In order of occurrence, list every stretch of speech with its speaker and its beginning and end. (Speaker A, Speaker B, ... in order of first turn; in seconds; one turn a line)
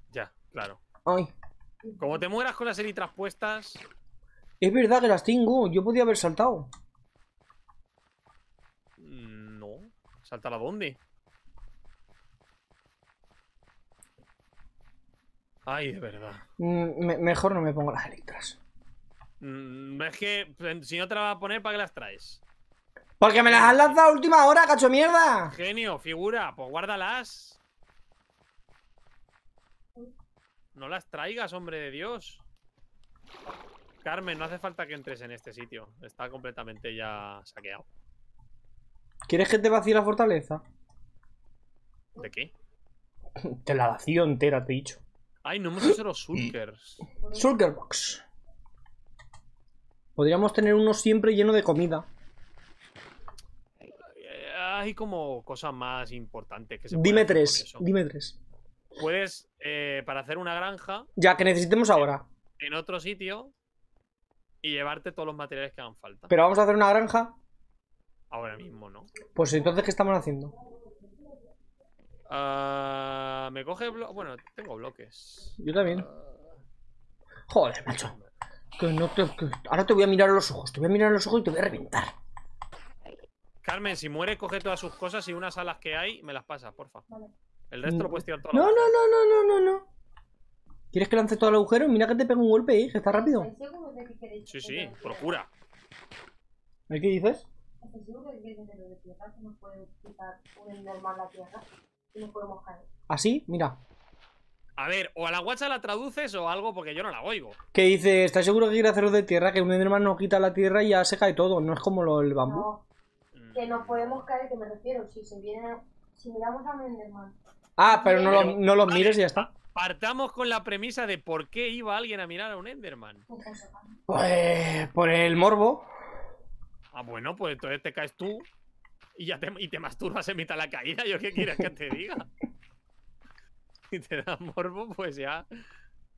Speaker A: 0.1-0.8
Speaker B: 1.1-1.3
Speaker C: 1.8-2.2
Speaker A: 2.0-3.8
Speaker B: 4.6-6.7
Speaker A: 9.0-11.0
Speaker A: 15.7-16.4
Speaker B: 16.6-18.6
Speaker A: 19.4-22.4
Speaker B: 23.2-25.5
Speaker A: 23.4-24.0
Speaker A: 25.5-27.6
Speaker A: 30.8-32.4
Speaker A: 34.0-37.9
Speaker B: 39.3-40.6
Speaker A: 42.2-42.5
Speaker B: 43.4-45.0
Speaker A: 45.5-47.1
Speaker C: 47.2-47.5
Speaker B: 47.3-48.2
Speaker B: 50.2-52.1
Speaker A: 54.1-57.9
Speaker B: 56.9-58.4
Speaker A: 59.0-61.1
Speaker B: 61.2-62.2
Speaker A: 62.6-63.5
Speaker A: 64.6-66.3
Speaker B: 66.3-67.4
Speaker A: 68.3-69.1
Speaker B: 69.3-70.5
Speaker A: 72.3-76.4
Speaker B: 75.6-76.1
Speaker B: 77.5-78.1
Speaker B: 78.8-82.1
Speaker A: 83.6-87.0
Speaker C: 87.1-87.3
Speaker A: 87.7-88.9
Speaker B: 87.9-89.8
Speaker B: 90.9-93.5
Speaker C: 93.1-95.4
Speaker A: 94.5-95.5
Speaker B: 96.9-97.5
Speaker C: 97.8-102.9
Speaker B: 103.1-103.8
Speaker A: 104.8-107.6
Speaker B: 107.7-112.7
Speaker C: 112.4-112.8
Speaker A: 113.3-114.2
Speaker C: 113.5-118.6
Speaker B: 117.8-119.5
Speaker A: 118.3-123.2
Speaker C: 123.3-124.0
Speaker B: 124.1-125.9
Speaker A: 126.9-128.5
Speaker A: 129.2-132.3
Speaker A: 133.9-135.4